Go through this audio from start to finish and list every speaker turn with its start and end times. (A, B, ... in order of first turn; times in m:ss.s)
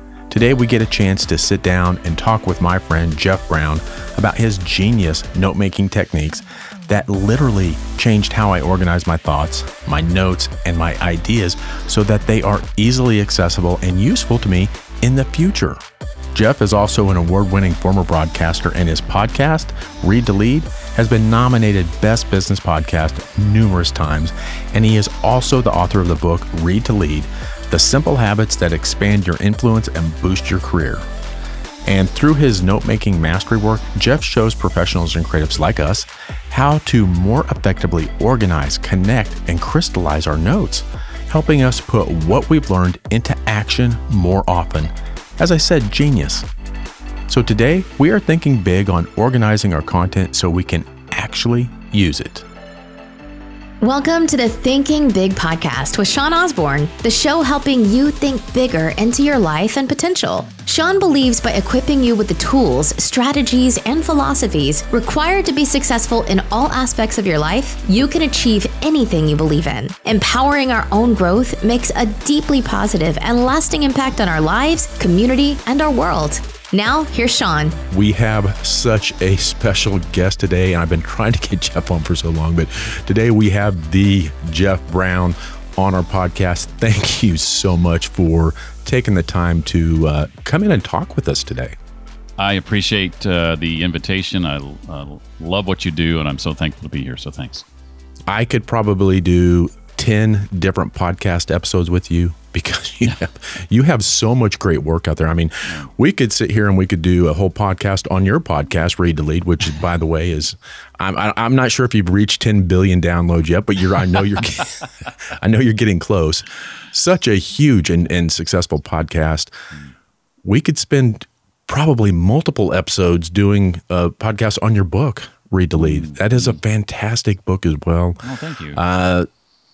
0:00.3-0:15.8 A
0:16.3-0:31.0 A
0:31.9-0:46.5 A
0:47.3-0:52.5 A
0:53.8-1:17.8 B
1:17.9-1:31.8 A
1:32.4-1:37.6 C
1:38.3-1:59.5 A
2:00.4-2:08.2 A
2:05.8-2:06.6 C
2:08.2-2:08.8 C
2:08.8-2:09.3 A